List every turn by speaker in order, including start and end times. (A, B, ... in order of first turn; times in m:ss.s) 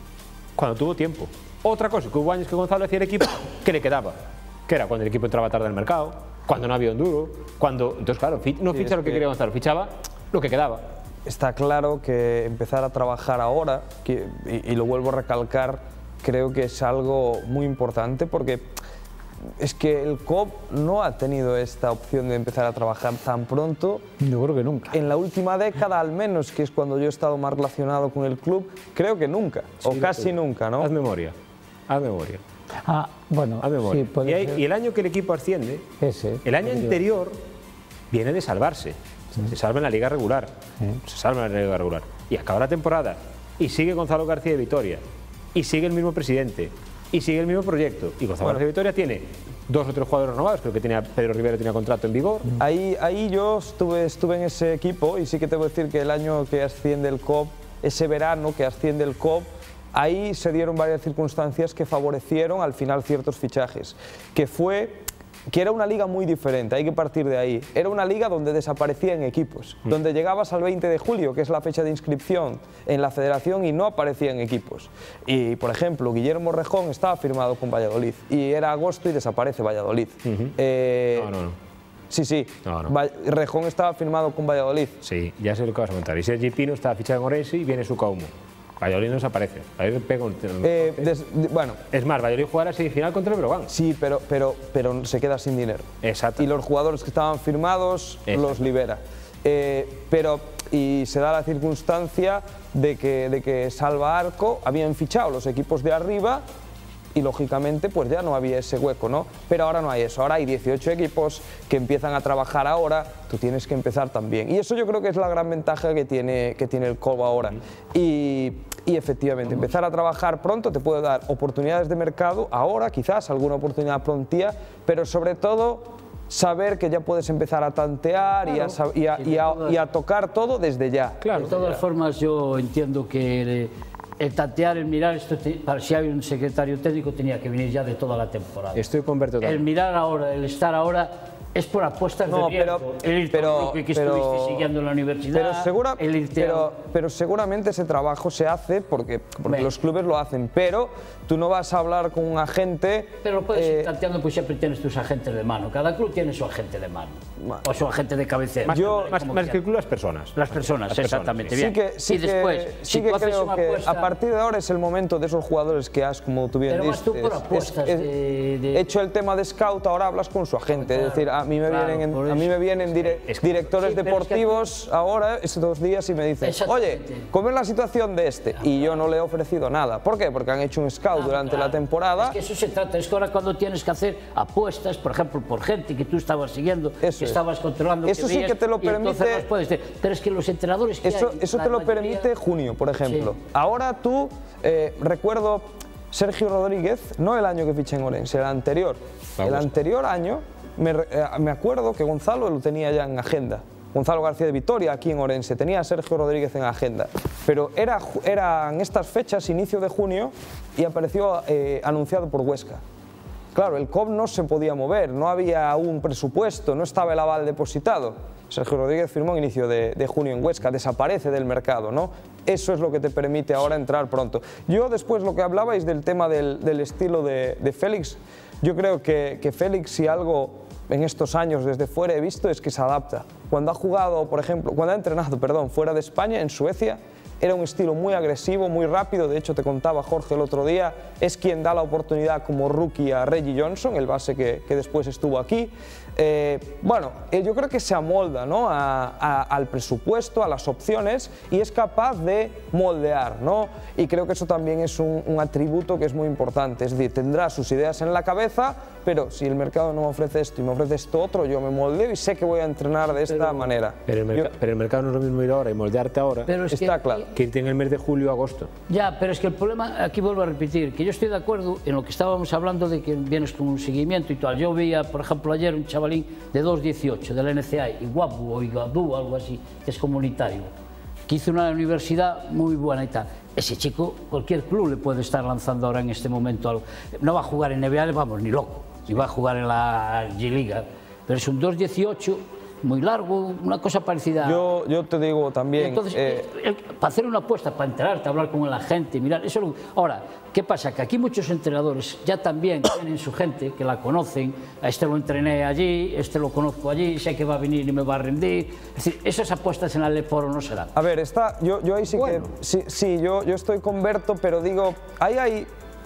0:00.6-0:10.8 A
0:08.7-0:09.2 B
0:11.2-0:18.7 B
0:19.6-0:24.1 B
0:24.2-0:25.0 C
0:24.9-0:30.9 B
0:29.8-0:31.3 A
0:31.9-0:32.4 A
0:32.8-0:34.6 C
0:33.6-0:35.9 A
0:36.0-0:37.0 C
0:36.4-0:37.4 A
0:38.1-0:40.5 A
0:41.0-0:45.0 A
0:45.5-0:52.5 A
0:52.6-1:21.3 B
1:20.2-1:20.6 A
1:21.1-1:21.6 A
1:22.1-1:25.0 B
1:22.6-1:22.9 A
1:25.0-1:31.1 A
1:30.6-1:31.8 B
1:31.9-1:33.7 A
1:33.7-1:46.4 B
1:36.0-1:36.5 A
1:38.3-1:38.6 A
1:47.1-2:11.8 B
2:08.4-2:09.8 D
2:11.2-2:11.6 A
2:11.3-2:18.8 D
2:18.7-2:19.6 A
2:19.4-2:26.7 D
2:22.3-2:24.7 B
2:25.3-2:33.9 B
2:33.2-2:39.6 D
2:37.4-2:37.6 B
2:38.6-2:41.5 A
2:38.7-2:39.1 B
2:40.4-2:44.1 D
2:41.6-2:48.1 B
2:46.7-2:48.8 D
2:48.7-3:02.4 B
2:50.8-2:52.5 D
2:53.0-2:54.2 A
2:53.9-2:54.6 D
2:56.4-2:57.3 D
3:01.1-3:12.3 D
3:07.0-3:07.4 B
3:08.0-3:09.4 B
3:11.0-3:32.8 B
3:19.4-3:19.8 A
3:33.5-4:24.5 B
4:23.1-4:23.7 D
4:24.1-4:26.5 A
4:26.5-4:27.3 D
4:26.7-4:27.3 B
4:27.3-4:28.7 A
4:28.9-4:40.7 D
4:41.3-4:54.6 D
4:54.4-4:56.4 B
4:55.8-5:10.9 D
5:11.0-5:15.7 B